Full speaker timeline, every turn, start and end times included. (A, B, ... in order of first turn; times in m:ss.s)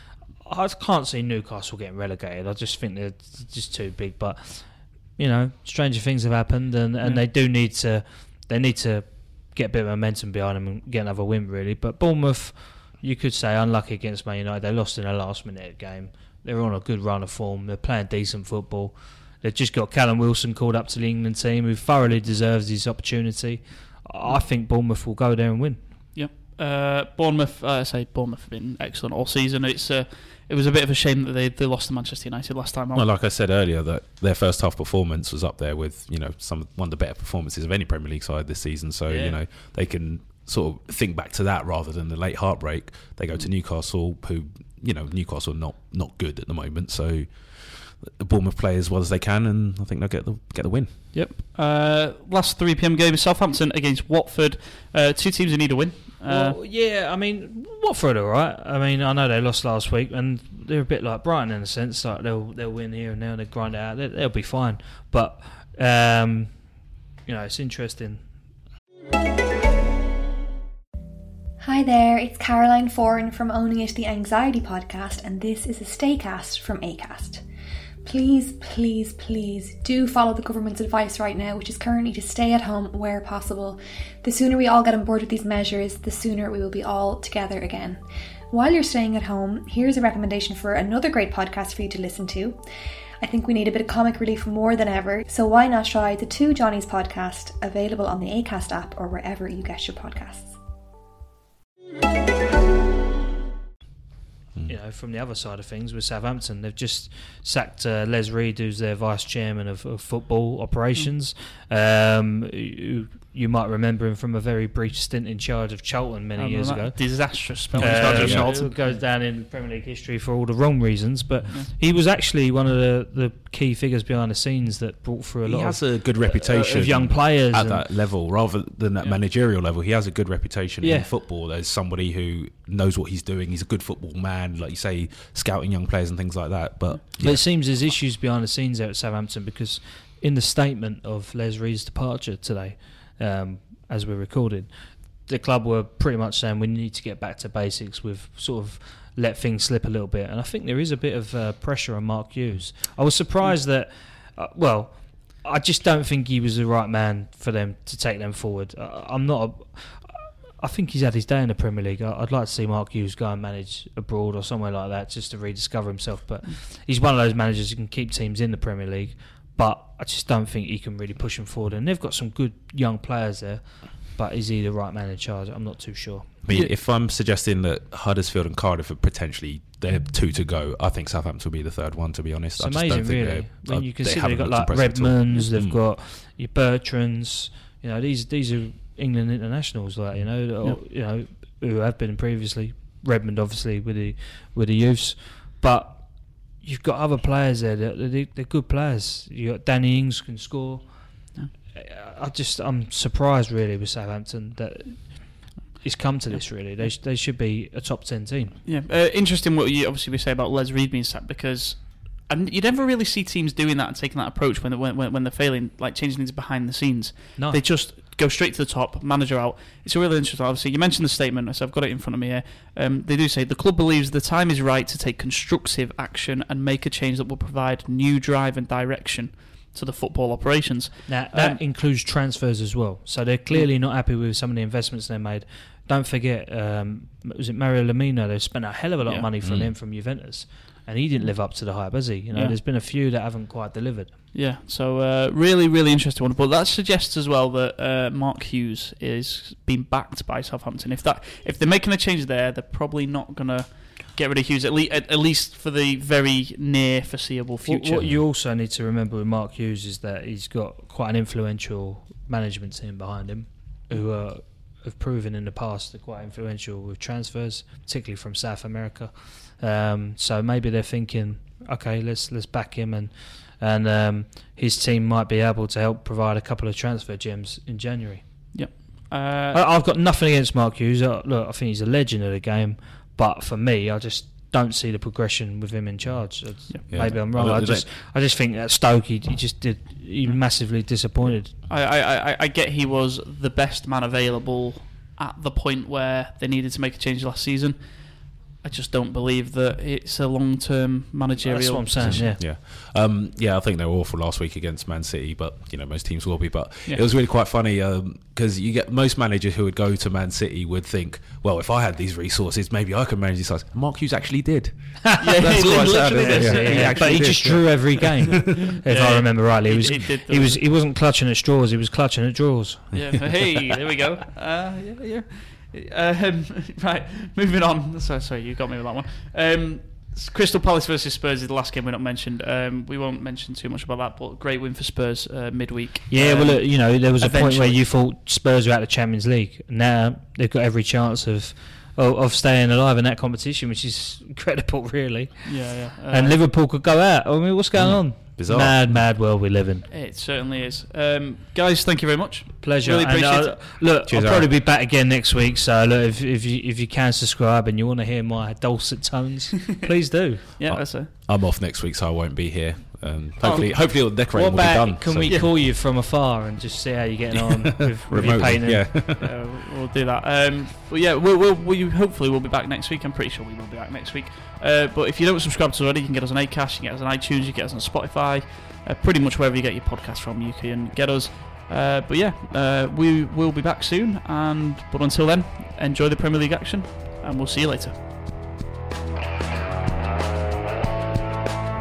0:00.4-0:25.9 A
0:26.1-0:33.1 B
0:32.9-0:51.2 C
0:39.1-0:39.4 A
0:51.1-0:56.6 B
0:56.3-1:06.7 A
1:07.2-1:08.3 A
1:11.6-1:17.4 D
1:18.0-1:32.6 D
1:33.2-1:40.6 D
1:44.7-2:07.9 A
1:56.4-1:59.0 B
1:57.7-1:58.8 C
2:05.4-2:17.6 C
2:10.8-2:11.1 A
2:17.2-2:56.4 A
2:56.4-3:05.8 C
3:02.6-3:28.6 A
3:26.3-3:26.9 B
3:28.6-3:51.6 B
3:37.4-3:37.6 A
3:51.1-4:04.1 A
3:59.4-3:59.8 C
4:01.2-4:01.8 B
4:04.3-4:18.1 B
4:17.6-4:38.7 A
4:38.5-4:39.6 B
4:39.5-4:51.5 A
4:46.7-4:47.0 B
4:46.9-4:47.9 C
4:51.7-5:02.3 B
5:01.4-5:02.4 A
5:02.0-5:18.4 C
5:15.0-5:23.3 A
5:15.2-5:20.6 B
5:22.9-5:23.6 C
5:22.9-5:37.9 B
5:36.1-5:49.9 A
5:45.5-5:46.4 B
5:47.8-5:49.1 C
5:49.9-5:53.8 B
5:52.6-6:00.4 A
5:54.1-5:54.5 C
6:00.6-6:01.1 B
6:00.6-6:05.6 C
6:03.4-6:04.3 B
6:04.3-6:08.9 A
6:07.3-6:09.3 C
6:09.0-6:28.0 B